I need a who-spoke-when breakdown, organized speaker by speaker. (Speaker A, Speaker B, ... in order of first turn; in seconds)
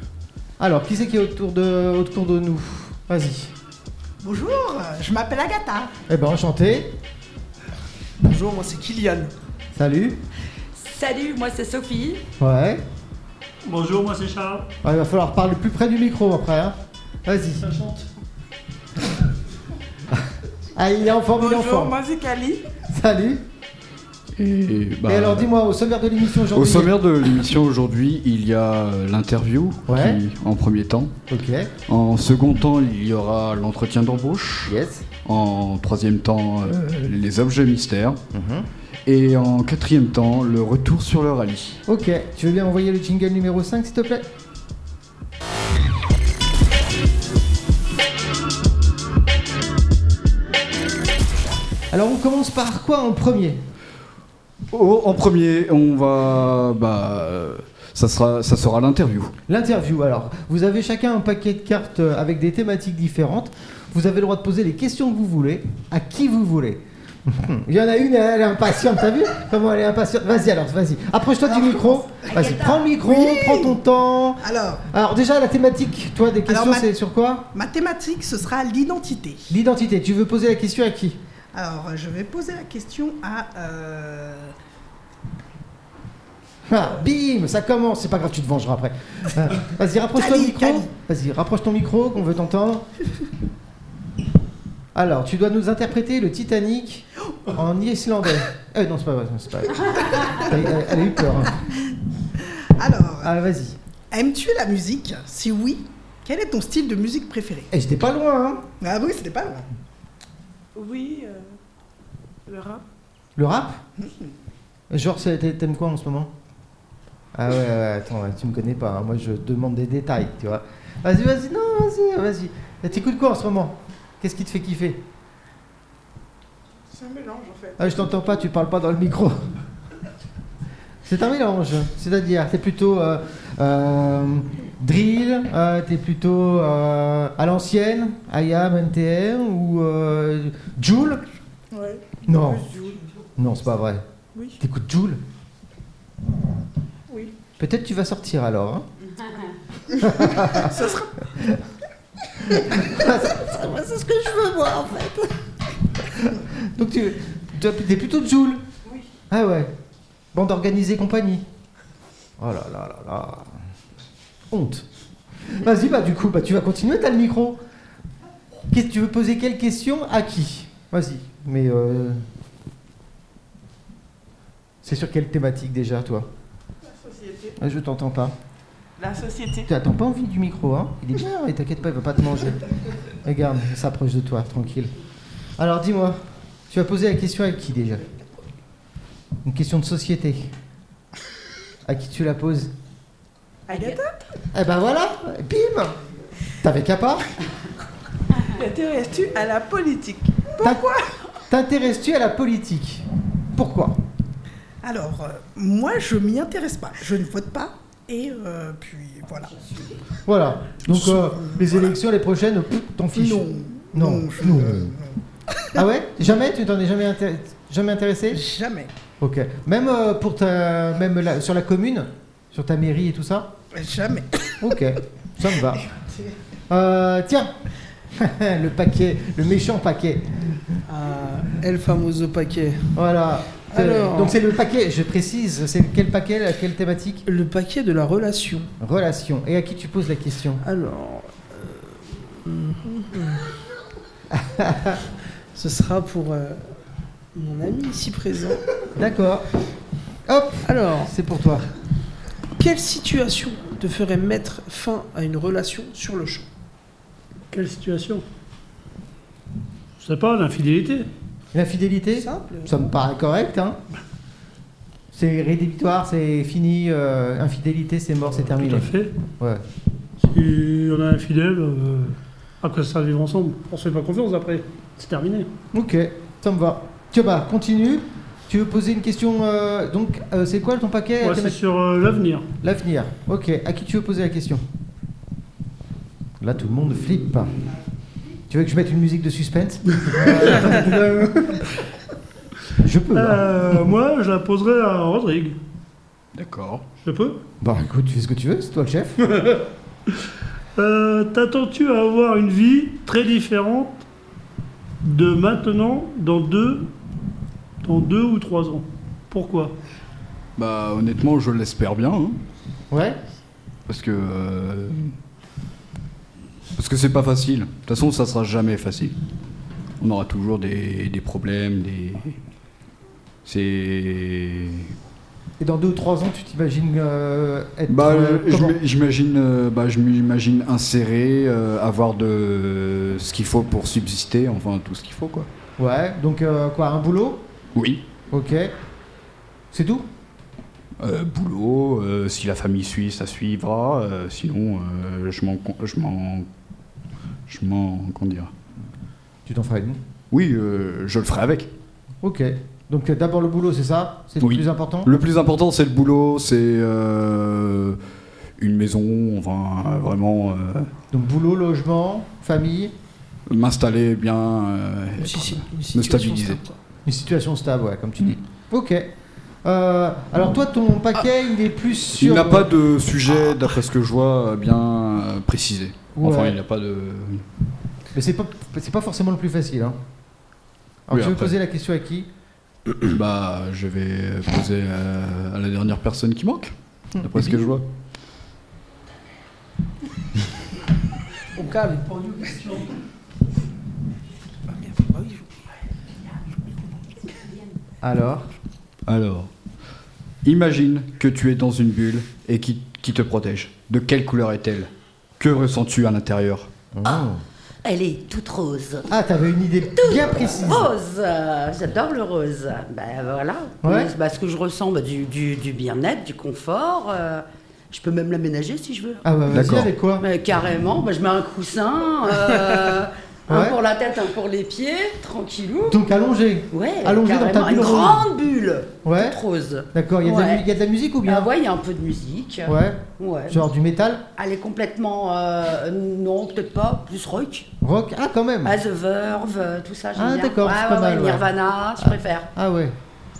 Speaker A: 0.6-3.5, 6.1-7.0, 9.7-10.2, 12.4-12.8, 14.8-17.7, 20.8-22.0, 22.9-23.4, 25.1-27.0, 29.9-30.2, 31.3-31.7, 34.7-35.1, 38.3-38.7, 41.9-44.3, 51.9-53.6, 59.5-77.5, 79.5-81.2, 86.7-92.9, 95.0-101.7, 103.2-103.8, 107.7-108.7, 113.4-113.8, 114.9-116.3, 117.3-125.0, 127.8-129.5, 131.0-141.2, 142.3-142.7, 143.4-144.1, 144.6-145.2, 147.6-148.9, 150.0-151.6, 152.4-155.4, 156.0-158.7, 159.3-159.7, 160.3-161.5, 162.4-163.6, 164.5-164.9, 165.4-167.6, 168.7-172.2, 174.8-176.3, 177.6-178.4, 179.7-182.7, 183.2-184.9, 185.6-188.1, 189.4-190.5, 191.8-192.7, 194.5-196.0, 196.6-197.3, 201.5-204.0, 210.2-214.9, 215.7-218.4, 219.2-223.5, 224.6-225.8, 226.7-227.5, 228.2-230.6, 232.9-237.2, 238.8-240.6, 244.3-245.0, 249.0-249.5, 250.3-251.7, 261.5-263.8, 265.1-269.6, 275.7-281.6, 282.6-284.6, 286.4-287.6, 288.5-291.6, 292.8-293.9, 297.6-299.3, 312.9-313.2, 325.6-328.8, 335.8-337.4, 338.3-338.8, 339.7-340.1, 349.5-350.0, 352.2-355.1, 361.1-362.9, 367.1-369.1, 369.6-372.7, 376.2-376.6, 378.1-380.0, 381.1-382.3, 387.2-387.5, 398.0-398.5, 406.9-407.4, 409.1-410.9, 413.8-414.1, 419.2-420.3, 423.5-423.8, 425.9-428.3, 429.1-429.4, 429.9-431.5, 432.6-434.3, 437.8-438.8, 440.1-443.0
Speaker B: 4.2-5.9, 71.5-72.3, 72.9-73.8, 74.4-74.8, 76.5-76.9, 77.5-79.5, 81.5-84.5, 90.2-90.9, 102.8-103.3, 104.1-107.7, 108.8-109.7, 204.8-209.8, 210.9-211.8, 213.2-215.8, 218.3-218.9, 223.7-224.8
Speaker C: 8.2-9.3, 230.9-233.0, 233.7-234.4, 237.3-238.7, 240.6-243.4, 245.5-246.8, 247.3-248.7, 250.7-251.1, 252.6-256.5, 262.2-262.7, 365.2-366.8, 391.6-392.9, 394.7-395.8, 396.5-397.5
Speaker D: 10.7-12.2, 72.3-72.9, 407.8-409.1, 409.9-419.2, 420.2-426.0, 426.7-430.6, 431.2-433.6, 434.4-437.7, 438.6-442.5
Speaker E: 13.6-14.7, 17.6-18.1, 257.5-258.2, 260.0-261.1, 268.4-269.1, 270.2-275.5, 281.2-282.5, 293.1-295.6, 297.0-297.4, 299.2-304.1, 305.0-306.9, 307.8-309.8
Speaker F: 21.3-22.6, 110.8-111.5, 112.5-112.8, 126.9-128.2, 141.7-143.0, 150.6-151.1, 176.8-177.6, 179.0-179.7, 193.7-194.0, 198.4-201.1
Speaker G: 24.4-25.5, 26.5-31.1, 31.9-38.2, 39.1-41.8, 54.7-59.3, 296.3-296.8, 310.6-312.4, 313.9-315.0, 316.8-319.1, 320.0-322.4, 323.4-324.9, 327.9-335.5, 337.8-338.0, 341.0-346.5, 347.5-348.5, 350.3-351.7, 354.4-358.0, 358.6-360.9, 363.5-366.6, 372.2-377.4, 381.1-381.5, 383.0-387.9, 399.1-399.5, 400.4-406.7, 419.5-419.9